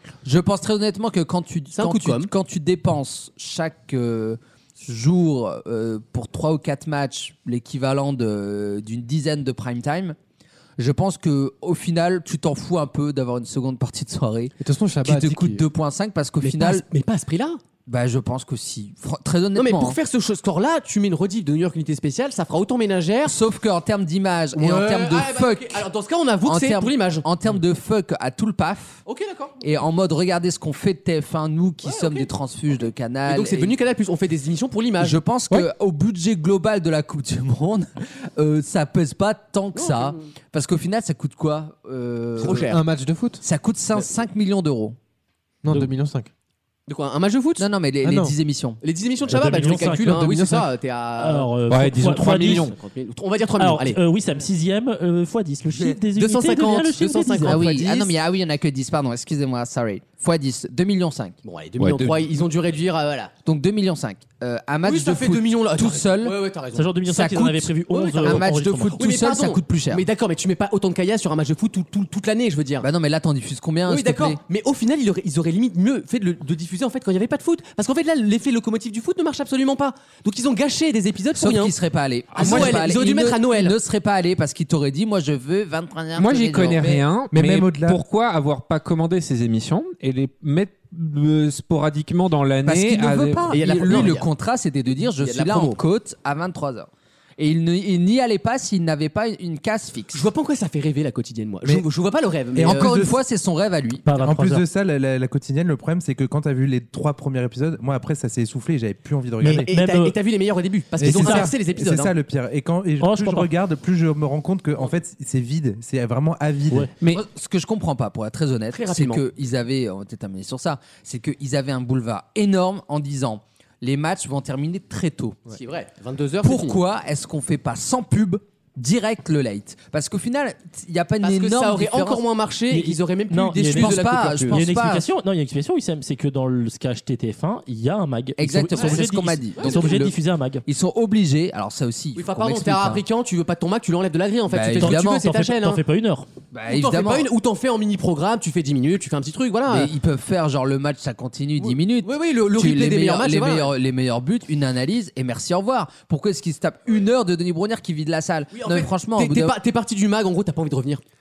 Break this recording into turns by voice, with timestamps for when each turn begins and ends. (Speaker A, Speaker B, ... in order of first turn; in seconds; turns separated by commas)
Speaker A: 0.2-10.2, Speaker B: 1.7-2.3, Speaker A: 10.8-16.8, Speaker C: 14.6-15.6, Speaker B: 16.4-17.6, Speaker A: 17.9-20.0, Speaker B: 19.6-23.4, Speaker A: 23.2-25.9, Speaker B: 24.6-27.3, Speaker A: 26.4-29.0, Speaker B: 29.1-29.6, Speaker A: 29.6-33.8, Speaker B: 31.8-32.3, Speaker B: 33.3-35.2, Speaker A: 35.0-42.8, Speaker B: 39.8-40.2, Speaker B: 42.4-42.8, Speaker C: 42.4-43.4, Speaker A: 43.4-45.0, Speaker C: 45.6-46.3, Speaker B: 46.9-47.7, Speaker A: 47.6-48.8, Speaker C: 48.0-48.3, Speaker B: 48.8-51.5, Speaker D: 49.3-50.2, Speaker C: 49.3-50.7, Speaker D: 51.2-52.7, Speaker E: 51.7-52.8, Speaker B: 52.3-54.0, Speaker D: 53.6-57.6, Speaker B: 55.7-58.1, Speaker A: 57.5-61.4, Speaker B: 61.5-63.3, Speaker E: 61.8-62.3, Speaker A: 63.5-66.4, Speaker B: 64.8-66.9, Speaker D: 66.7-69.0, Speaker A: 67.0-70.1, Speaker B: 68.0-68.5, Speaker B: 69.0-72.9, Speaker A: 72.8-74.4, Speaker B: 73.9-81.7, Speaker A: 81.3-87.0, Speaker E: 82.3-82.8, Speaker B: 82.3-83.8, Speaker E: 86.2-94.1, Speaker F: 87.3-88.0, Speaker A: 92.6-100.3, Speaker B: 93.5-94.3, Speaker B: 95.0-95.8, Speaker B: 100.1-103.0, Speaker F: 102.5-103.2, Speaker A: 102.7-104.0, Speaker D: 104.1-104.7, Speaker F: 104.1-109.7, Speaker D: 109.4-110.2, Speaker B: 109.5-112.1, Speaker F: 111.0-116.9, Speaker D: 111.0-111.5, Speaker D: 113.0-113.5, Speaker A: 117.1-125.4, Speaker B: 118.7-119.2, Speaker B: 125.5-126.8, Speaker A: 126.4-132.2, Speaker B: 131.2-134.6, Speaker D: 132.7-140.7, Speaker A: 133.7-135.1, Speaker A: 138.4-143.0, Speaker B: 139.6-139.9, Speaker B: 142.2-145.8, Speaker A: 144.5-145.3, Speaker D: 144.8-146.3, Speaker A: 146.5-147.3, Speaker B: 146.7-149.9, Speaker A: 149.7-159.6, Speaker B: 151.6-153.7, Speaker B: 158.5-161.0